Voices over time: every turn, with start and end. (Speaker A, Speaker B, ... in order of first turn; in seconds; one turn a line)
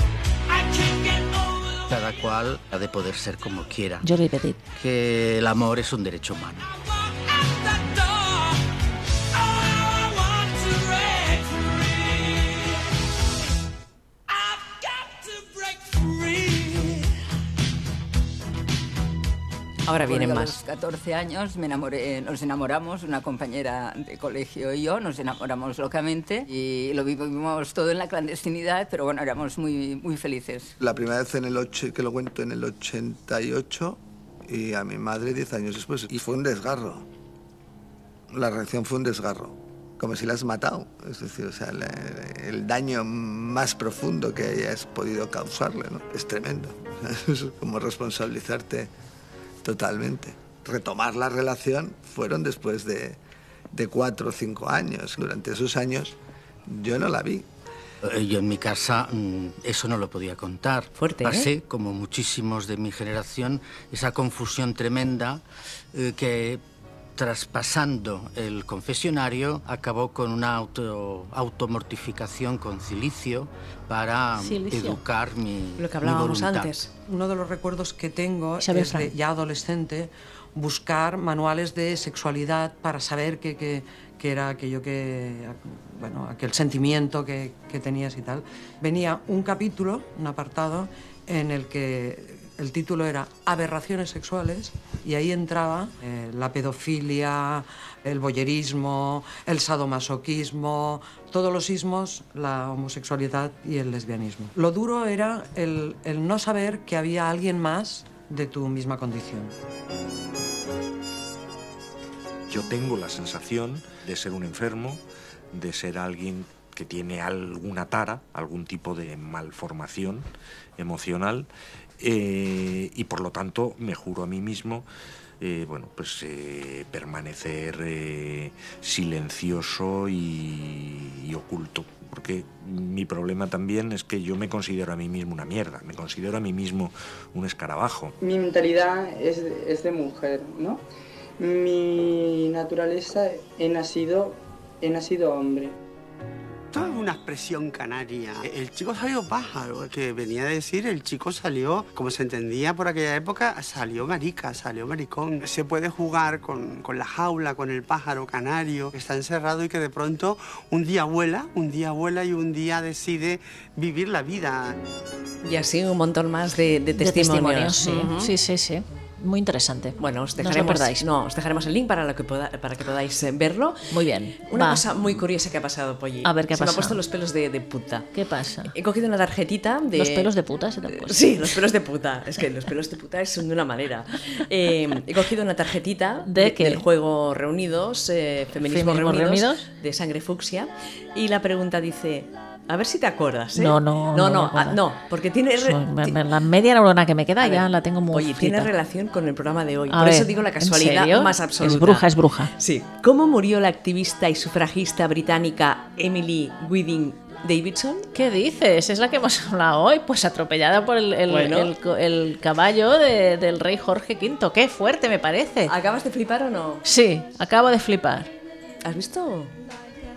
Speaker A: 1.8-4.1
Speaker B: 4.0-4.6
Speaker A: 4.8-6.7
Speaker C: 19.9-20.6
Speaker D: 20.0-30.7
Speaker E: 30.8-37.0
Speaker E: 38.3-48.9
Speaker E: 49.6-53.2
Speaker E: 53.7-57.5
Speaker A: 58.0-65.4
Speaker C: 61.0-61.5
Speaker A: 65.9-66.6
Speaker A: 67.2-76.8
Speaker B: 74.4-75.0
Speaker C: 75.8-76.9
Speaker F: 77.1-109.5
Speaker B: 78.6-79.1
Speaker G: 112.5-120.3
Speaker G: 120.8-124.9
Speaker G: 125.4-138.2
Speaker H: 138.2-140.8
Speaker H: 141.4-145.8
Speaker I: 146.7-164.8
Speaker C: 165.4-168.3
Speaker B: 167.0-171.0
Speaker C: 170.0-173.9
Speaker B: 173.9-174.9
Speaker C: 174.5-178.1
Speaker B: 176.2-177.0
Speaker B: 178.1-178.7
Speaker C: 178.7-180.3
Speaker B: 180.0-181.5
Speaker C: 180.9-196.2
Speaker B: 186.3-186.9
Speaker B: 188.6-189.7
Speaker B: 193.6-194.8
Speaker B: 195.6-198.7
Speaker C: 197.4-208.1
Speaker B: 199.9-202.5
Speaker B: 208.1-215.7
Speaker C: 211.3-211.7
Speaker C: 215.7-216.8
Speaker B: 216.8-218.3
Speaker C: 218.8-219.5